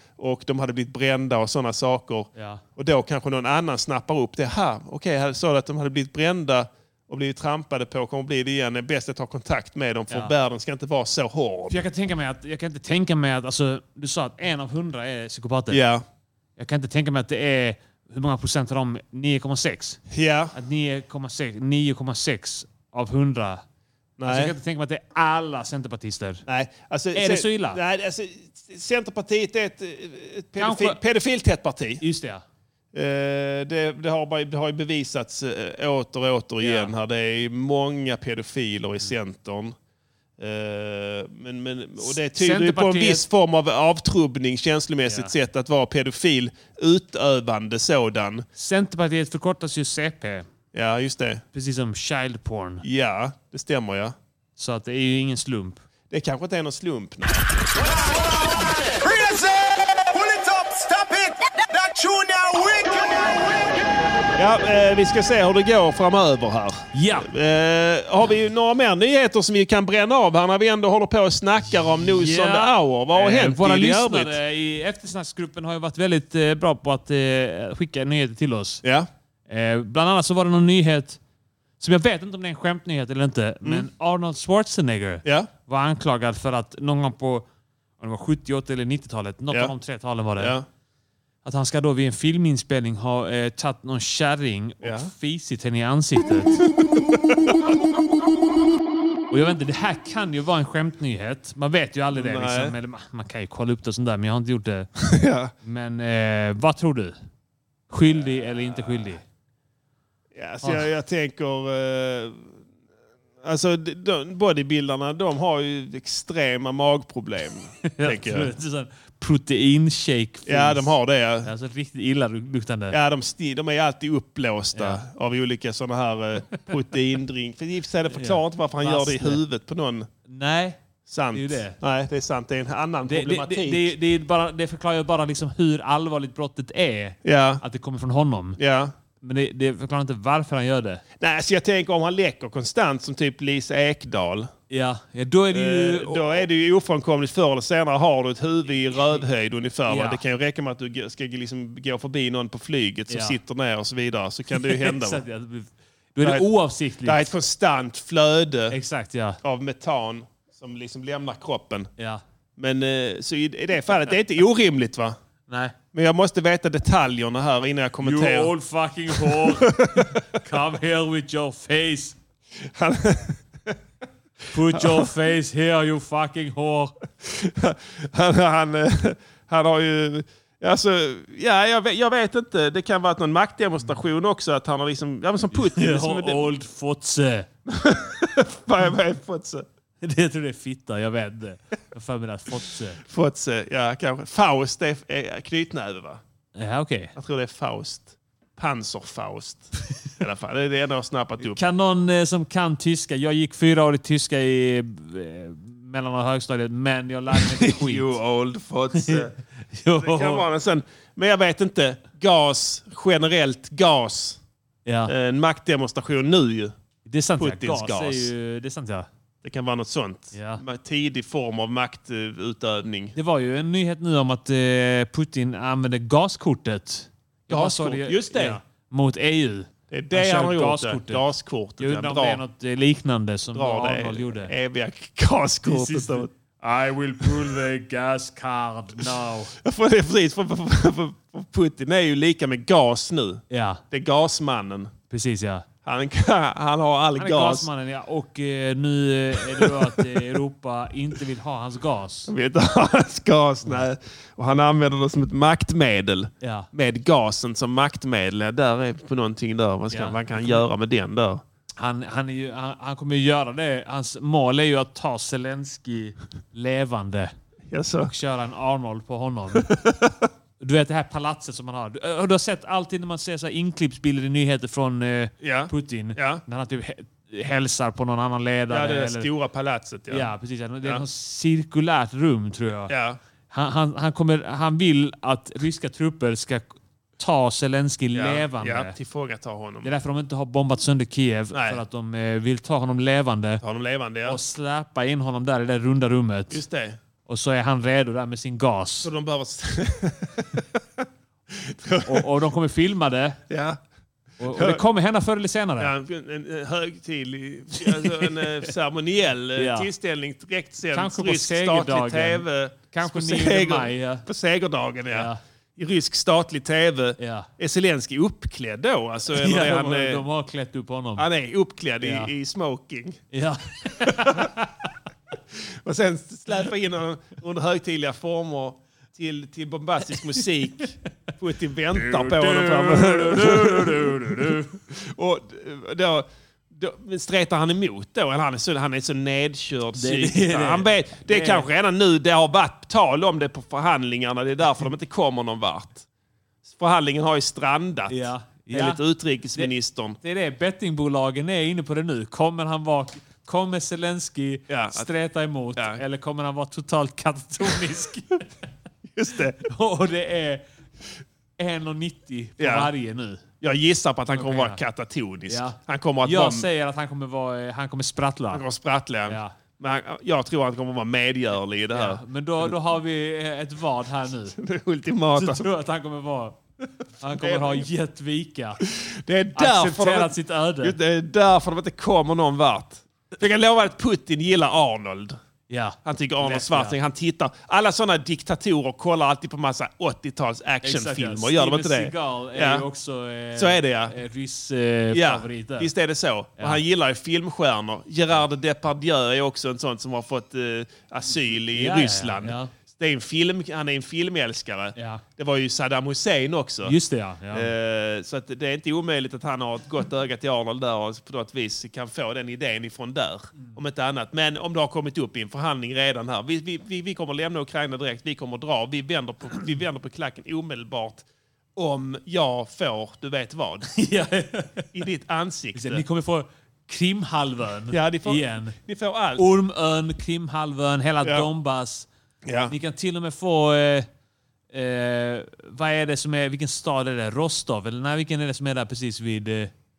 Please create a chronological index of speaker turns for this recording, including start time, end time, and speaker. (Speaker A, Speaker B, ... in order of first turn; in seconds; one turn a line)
Speaker A: 0.2-11.8
Speaker B: 2.4-2.6
Speaker B: 10.1-10.3
Speaker B: 11.7-15.8
Speaker A: 15.7-16.0
Speaker B: 16.6-20.0
Speaker A: 20.1-20.6
Speaker B: 20.5-23.6
Speaker A: 24.2-24.6
Speaker B: 24.2-26.4
Speaker A: 26.5-32.0
Speaker B: 27.1-27.8
Speaker B: 30.6-31.0
Speaker B: 32.0-32.4
Speaker A: 32.9-39.8
Speaker B: 36.6-36.9
Speaker A: 40.4-48.5
Speaker B: 42.0-43.3
Speaker B: 45.1-45.3
Speaker B: 48.6-50.5
Speaker A: 50.7-51.4
Speaker B: 51.5-52.8
Speaker A: 52.8-54.2
Speaker B: 54.6-55.8
Speaker A: 56.1-57.6
Speaker C: 58.0-63.8
Speaker A: 64.4-74.4
Speaker B: 66.9-67.3
Speaker B: 72.0-78.8
Speaker A: 78.8-79.1
Speaker B: 79.5-81.2
Speaker B: 81.8-87.5
Speaker A: 83.6-83.9
Speaker A: 85.2-85.5
Speaker B: 88.0-90.6
Speaker A: 90.4-90.7
Speaker B: 91.4-96.6
Speaker A: 94.8-95.1
Speaker A: 96.8-97.7
Speaker B: 99.3-104.9
Speaker A: 102.1-102.8
Speaker A: 105.0-105.5
Speaker B: 105.6-107.2
Speaker B: 107.9-109.2
Speaker A: 108.1-109.2
Speaker A: 110.3-112.5
Speaker B: 110.6-110.9
Speaker A: 113.4-118.5
Speaker B: 117.9-120.9
Speaker A: 120.5-121.5
Speaker B: 121.4-123.0
Speaker A: 122.9-130.1
Speaker B: 124.8-125.0
Speaker B: 128.1-129.4
Speaker B: 130.3-130.8
Speaker A: 131.1-133.9
Speaker B: 131.3-131.8
Speaker B: 133.1-138.6
Speaker A: 137.2-137.6
Speaker A: 138.6-138.9
Speaker B: 139.2-141.0
Speaker A: 141.2-144.5
Speaker B: 144.7-146.4
Speaker A: 145.5-155.2
Speaker B: 149.9-150.2
Speaker B: 153.1-153.4
Speaker B: 154.6-157.3
Speaker A: 156.2-156.5
Speaker A: 157.0-158.8
Speaker B: 158.7-159.4
Speaker A: 159.4-161.9
Speaker A: 162.6-165.2
Speaker B: 165.5-165.8
Speaker A: 165.9-168.5
Speaker B: 168.0-172.2
Speaker A: 169.1-170.2
Speaker A: 172.7-173.8
Speaker B: 174.5-176.9
Speaker A: 174.7-175.1
Speaker A: 177.2-186.5
Speaker B: 185.5-187.5
Speaker A: 187.7-189.7
Speaker B: 190.0-193.0
Speaker A: 193.0-196.2
Speaker B: 196.6-197.1
Speaker A: 197.2-201.6
Speaker B: 201.4-208.1
Speaker A: 207.3-209.3
Speaker B: 208.9-210.4
Speaker A: 210.0-214.4
Speaker B: 214.9-215.1
Speaker A: 215.1-216.7
Speaker B: 217.1-219.1
Speaker A: 217.4-218.3
Speaker A: 219.4-223.2
Speaker B: 220.3-220.6
Speaker B: 223.2-231.2
Speaker A: 227.5-228.6
Speaker A: 229.9-232.4
Speaker B: 231.8-234.5
Speaker A: 233.5-236.3
Speaker B: 235.7-239.5
Speaker A: 239.6-244.9
Speaker B: 243.5-243.8
Speaker B: 245.1-245.7
Speaker A: 245.8-247.7
Speaker B: 247.2-252.3
Speaker A: 249.5-250.2
Speaker A: 252.3-261.4
Speaker B: 256.4-256.7
Speaker B: 259.9-260.6
Speaker B: 261.8-267.3
Speaker A: 267.7-268.1
Speaker B: 268.1-269.7
Speaker A: 269.5-270.3
Speaker B: 270.6-279.3
Speaker A: 275.4-276.4
Speaker A: 278.7-280.3
Speaker B: 280.1-282.9
Speaker A: 282.9-283.2
Speaker B: 283.5-288.9
Speaker A: 288.1-289.9
Speaker B: 289.8-293.6
Speaker A: 291.5-291.8
Speaker A: 293.6-294.4
Speaker B: 294.3-296.6
Speaker A: 296.5-297.0
Speaker B: 297.3-299.1
Speaker A: 299.0-302.3
Speaker B: 302.1-303.4
Speaker A: 303.5-303.8
Speaker B: 304.4-305.9
Speaker A: 304.4-304.8
Speaker A: 305.8-320.2
Speaker B: 307.8-308.7
Speaker B: 309.6-309.9
Speaker B: 310.9-314.3
Speaker B: 315.1-315.4
Speaker B: 317.2-317.5
Speaker B: 319.3-321.3
Speaker A: 321.2-323.3
Speaker B: 322.0-322.3
Speaker B: 323.3-324.9
Speaker A: 324.0-324.5
Speaker A: 325.6-346.1
Speaker B: 331.9-334.8
Speaker B: 340.0-341.7
Speaker A: 346.6-350.2
Speaker B: 348.1-349.0
Speaker B: 349.6-358.5
Speaker A: 354.7-355.1
Speaker A: 359.1-359.6
Speaker B: 359.6-360.6
Speaker B: 361.6-363.4
Speaker A: 362.6-362.9
Speaker A: 363.6-366.7
Speaker B: 364.3-364.8
Speaker B: 365.5-368.6
Speaker A: 368.5-372.8
Speaker B: 369.3-369.6
Speaker B: 371.9-374.6
Speaker A: 374.6-375.7
Speaker B: 375.4-376.6
Speaker B: 377.2-378.8
Speaker A: 377.4-377.9
Speaker A: 378.8-385.4
Speaker B: 379.6-381.0
Speaker B: 385.7-387.0
Speaker A: 386.1-392.9
Speaker B: 390.8-395.9
Speaker A: 393.6-394.1
Speaker A: 395.1-407.0
Speaker B: 401.7-402.7
Speaker B: 405.0-405.2
Speaker B: 406.8-407.7
Speaker A: 407.5-423.9
Speaker B: 423.9-424.9
Speaker A: 424.9-426.0
Speaker B: 425.7-428.8
Speaker A: 427.9-429.5
Speaker B: 429.4-432.1
Speaker A: 431.2-431.5
Speaker A: 432.4-432.8
Speaker B: 432.7-434.1
Speaker B: 434.7-439.7